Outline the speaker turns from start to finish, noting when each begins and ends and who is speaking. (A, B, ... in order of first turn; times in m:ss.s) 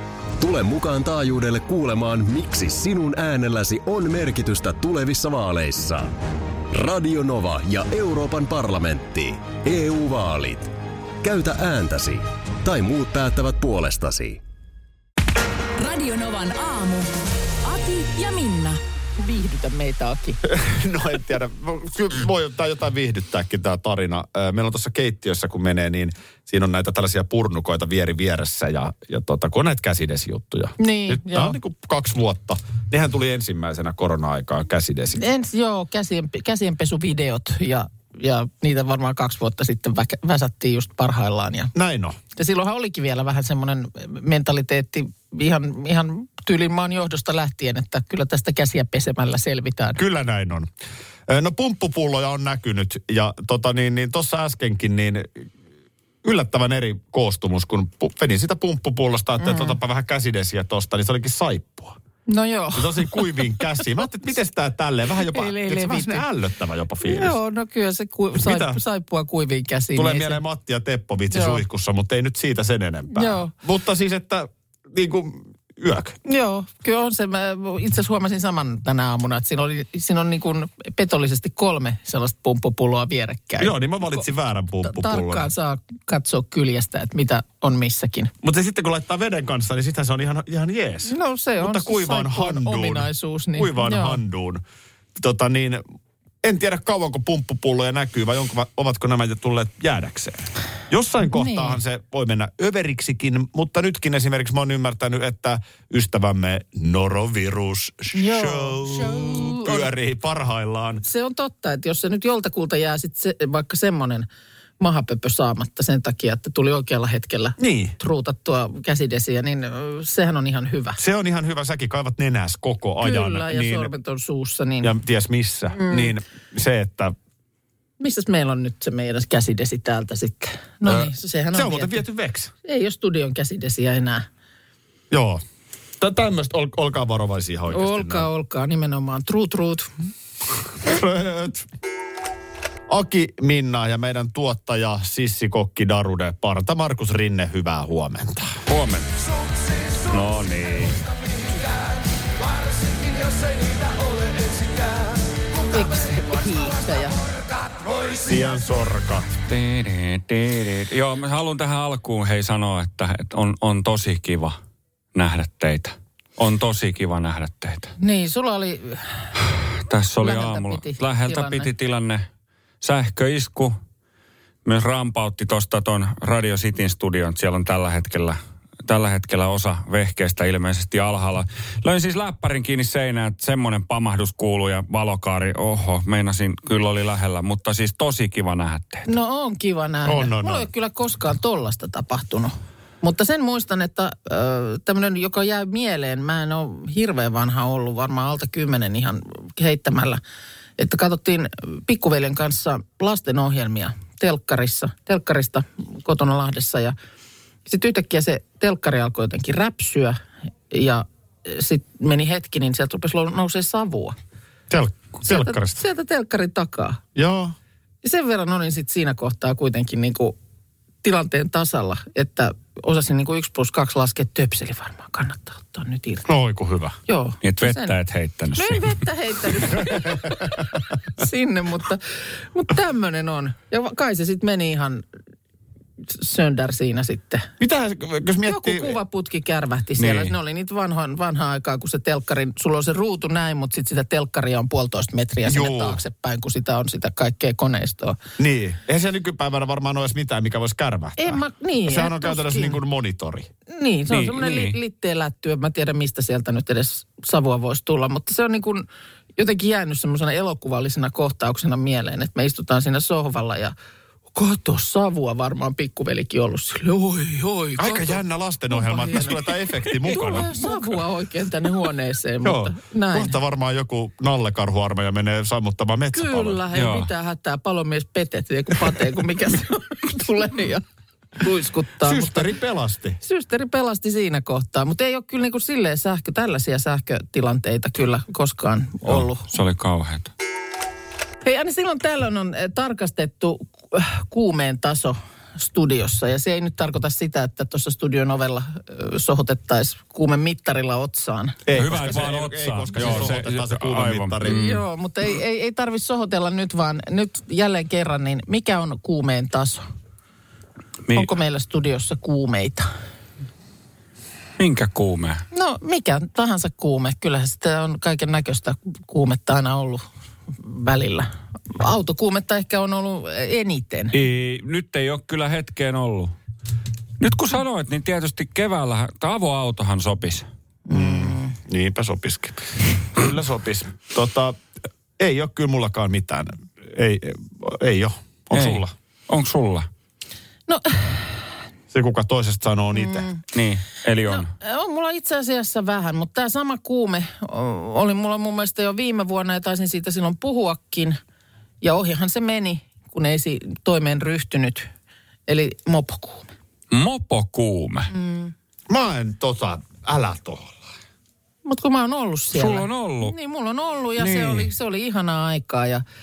0:00.4-0:06.1 A
0:06.7-0:14.4 A
0:15.8-0:17.1 B
0:17.6-0:18.8 B
0:19.2-0:20.4 C
0:20.5-0:35.2 D
0:30.8-0:31.6 C
0:35.2-0:41.7 C
0:41.7-0:42.2 D
0:42.4-0:50.0 C
0:50.0-0:50.7 D
0:51.3-0:55.4 D
0:56.2-1:02.0 D
0:59.4-0:59.8 C
1:02.3-1:03.8 C
1:02.8-1:07.4 D
1:05.3-1:06.3 C
1:07.0-1:10.4 C
1:08.4-1:08.8 D
1:10.0-1:16.2 D
1:11.3-1:11.6 C
1:13.1-1:13.5 C
1:16.3-1:24.2 C
1:23.6-1:25.5 D
1:24.8-1:28.3 C
1:28.4-1:34.6 D
1:31.1-1:34.2 C
1:35.2-1:35.8 D
1:36.4-1:51.0 D
1:41.2-1:41.8 C
1:48.1-1:49.9 C
1:51.0-1:54.3 C
1:54.8-2:01.0 C
1:57.6-1:58.0 D
2:01.0-2:03.9 D
2:03.0-2:04.9 C
2:04.8-2:07.1 D
2:05.7-2:06.1 C
2:08.0-2:12.0 C
2:10.9-2:12.5 D
2:12.6-2:14.3 C
2:15.1-2:15.4 D
2:16.0-2:18.3 D
2:17.7-2:19.9 C
2:20.8-2:21.7 D
2:22.9-2:28.6 D
2:28.7-2:29.1 E
2:30.0-2:31.0 E
2:35.7-2:37.3 C
2:38.2-2:39.3 D
2:39.5-2:44.6 E
2:45.2-2:47.9 E
2:48.0-2:49.3 C
2:49.9-2:52.2 E
2:50.2-2:51.7 C
2:52.8-2:53.8 E
2:54.6-3:09.1 E
3:09.1-3:20.2 C
3:10.0-3:10.7 D
3:20.8-3:27.0 C
3:27.7-3:30.2 C
3:30.7-3:34.2 C
3:34.7-3:35.8 D
3:35.2-3:37.0 C
3:37.2-3:37.6 D
3:38.0-3:40.4 C
3:41.0-3:46.2 C
3:46.2-3:47.0 D
3:47.1-3:48.0 C
3:47.4-3:49.0 E
3:48.6-3:55.0 C
3:56.1-3:57.5 C
3:57.6-3:59.0 D
3:58.4-4:08.2 C
4:00.0-4:00.4 E
4:05.5-4:06.0 D
4:08.4-4:13.5 D
4:11.2-4:12.8 C
4:13.7-4:23.7 C
4:14.1-4:14.8 E
4:24.3-4:33.4 C
4:27.8-4:31.0 D
4:32.4-4:36.6 D
4:36.1-4:40.8 C
4:36.7-4:37.1 E
4:41.4-4:42.5 C
4:42.0-4:43.2 D
4:43.2-4:49.5 C
4:49.1-4:50.3 E
4:51.4-5:01.6 C
5:01.7-5:04.6 D
5:01.8-5:04.8 E
5:04.4-5:09.8 C
5:11.1-5:12.9 C
5:14.6-5:15.4 E
5:15.5-5:20.0 C
5:20.6-5:24.1 C
5:24.1-5:26.4 E
5:27.2-5:30.5 E
5:30.9-5:31.5 C
5:30.9-5:34.6 D
5:35.2-5:38.9 D
5:38.5-5:39.9 E
5:40.7-5:41.4 C
5:41.9-5:43.3 D
5:43.0-5:43.4 C
5:43.5-5:44.5 E
5:44.3-5:51.2 C
5:51.8-5:54.9 C
5:55.5-5:56.5 C
5:56.9-5:58.1 E
5:58.1-5:58.5 C
5:58.9-6:00.8 D
6:01.6-6:06.0 C
6:02.5-6:03.3 E
6:04.2-6:04.7 E